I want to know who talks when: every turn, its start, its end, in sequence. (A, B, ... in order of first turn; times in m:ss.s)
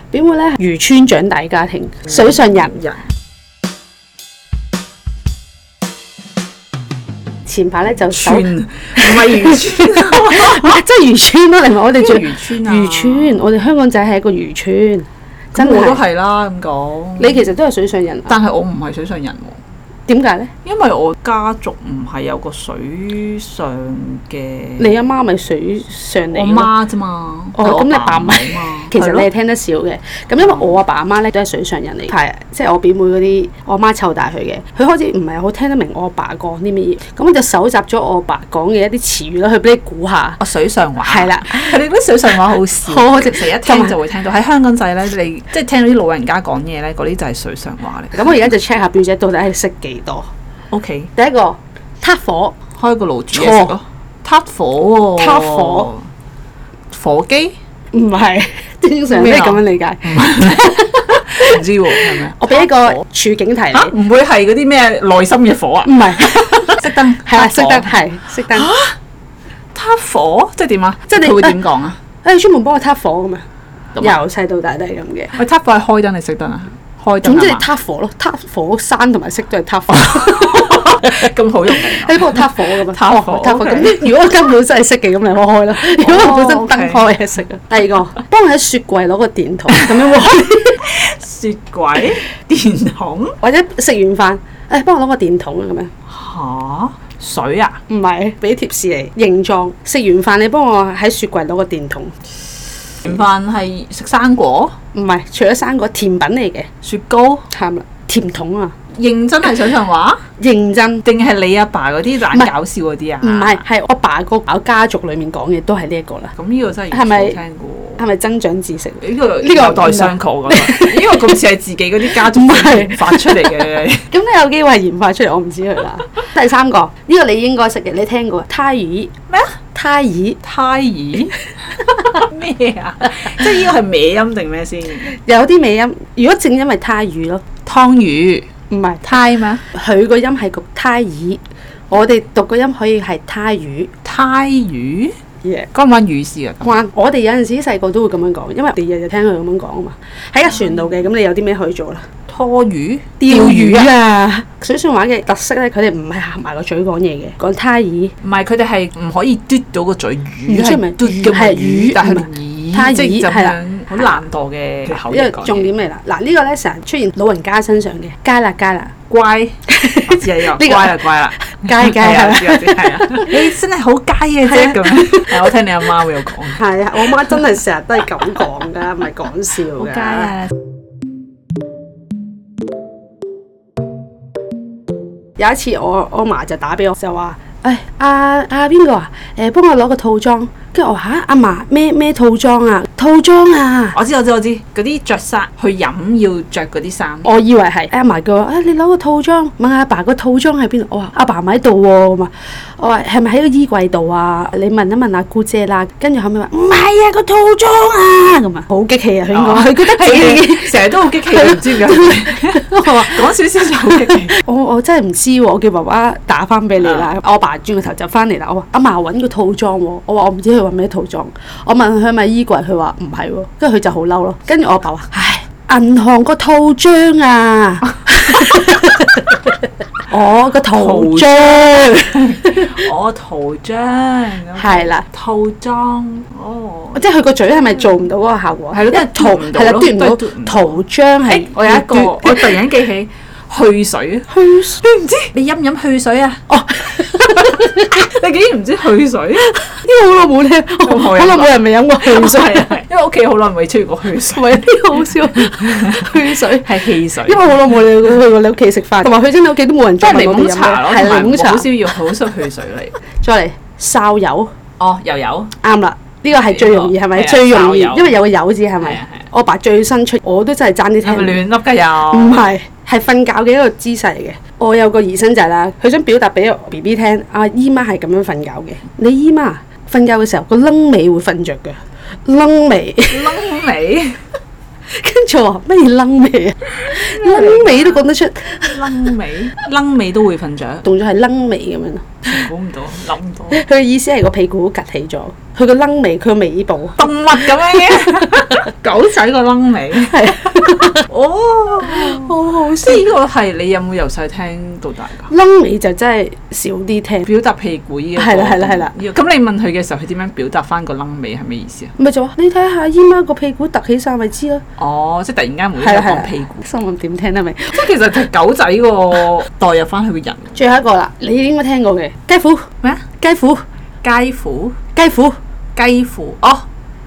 0:00.1-0:02.8 A
0:02.1-0:03.0 B
0:07.5-0:16.0 A
0:07.9-0:10.8 B
0:12.0-0:13.4 B
0:15.6-0:17.5 B
0:17.2-0:18.4 A
0:18.3-0:19.6 B
0:20.1-0:20.5 A
0:20.6-0:24.9 B
0:24.8-0:26.7 A
0:26.3-0:29.3 B
0:27.6-0:40.4 A
0:30.4-0:30.8 B
0:40.4-0:48.4 B
0:41.0-0:41.8 A
0:42.9-0:44.0 A
0:48.1-0:50.3 A
0:50.7-0:51.1 B
0:51.2-0:52.6 A
0:52.7-0:56.1 B
0:53.3-0:53.7 A
0:55.2-0:55.9 A
0:56.9-0:57.6 B
0:57.9-1:03.9 A
0:59.1-1:03.0 B
1:03.7-1:08.0 B
1:05.8-1:08.7 A
1:08.5-1:09.0 B
1:09.7-1:12.0 B
1:11.1-1:11.6 A
1:12.2-1:13.4 A
1:14.0-1:15.4 A
1:15.4-1:17.7 B
1:17.2-1:30.8 A
1:19.9-1:24.0 B
1:25.8-1:27.1 B
1:29.7-1:30.3 B
1:30.8-1:33.4 B
1:33.4-1:35.9 A
1:36.1-1:37.8 B
1:37.9-1:42.1 A
1:43.0-1:44.8 B
1:44.9-1:46.7 A
1:46.8-1:47.5 B
1:47.5-1:48.8 A
1:49.0-1:50.2 B
1:50.4-1:51.0 A
1:51.0-1:53.6 B
1:53.2-1:56.3 A
1:56.4-1:58.0 B
1:56.9-1:57.4 A
1:58.0-2:01.3 A
1:59.0-2:04.1 B
2:02.0-2:03.6 A
2:04.1-2:09.1 A
2:09.3-2:09.6 B
2:09.7-2:10.4 A
2:10.4-2:15.1 B
2:15.1-2:17.4 A
2:17.7-2:18.5 B
2:18.7-2:19.1 A
2:19.0-2:19.6 B
2:19.7-2:23.9 A
2:24.0-2:25.1 B
2:25.4-2:25.7 A
2:25.7-2:26.8 B
2:26.6-2:32.1 A
2:32.3-2:33.9 B
2:33.2-2:38.1 A
2:38.2-2:45.7 B
2:40.5-2:44.2 A
2:44.9-2:48.9 A
2:49.1-2:57.4 B
2:49.7-2:53.4 A
2:54.5-2:55.5 A
2:56.6-3:00.4 A
2:59.7-3:00.5 B
3:05.4-3:14.0 A
3:13.9-3:17.3 B
3:17.2-3:33.2 A
3:29.3-3:34.3 B
3:34.0-3:49.4 A
3:36.8-3:37.1 B
3:50.1-3:52.8 A
3:50.7-3:57.0 B
3:54.6-3:55.1 A
3:57.0-4:02.6 A
3:57.6-3:57.9 B
3:58.7-4:06.4 B
4:04.3-4:04.8 A
4:06.5-4:08.0 A
4:06.9-4:09.8 B
4:09.6-4:12.8 A
4:10.8-4:17.7 B
4:14.3-4:21.7 A
4:20.0-4:23.0 B
4:23.2-4:24.5 A
4:24.8-4:25.5 B
4:25.6-4:31.4 A
4:26.3-4:28.2 B
4:28.8-4:29.3 B
4:31.0-4:32.5 B
4:32.1-4:43.4 A
4:43.1-4:44.2 B
4:44.9-4:48.8 A
4:46.8-4:50.8 B
4:50.8-4:52.5 A
4:52.3-4:53.6 B
4:53.5-4:57.1 A
4:57.0-5:05.3 B
4:58.0-4:58.4 A
5:00.0-5:01.1 A
5:01.8-5:03.1 A
5:05.3-5:07.3 A
5:07.2-5:11.9 B
5:08.2-5:08.9 A
5:12.0-5:14.6 A
5:14.8-5:16.6 B
5:15.8-5:17.8 A
5:17.7-5:20.6 B
5:20.6-5:22.7 A
5:23.2-5:23.6 A
5:24.0-5:24.8 B
5:24.9-5:25.4 A
5:25.8-5:26.7 B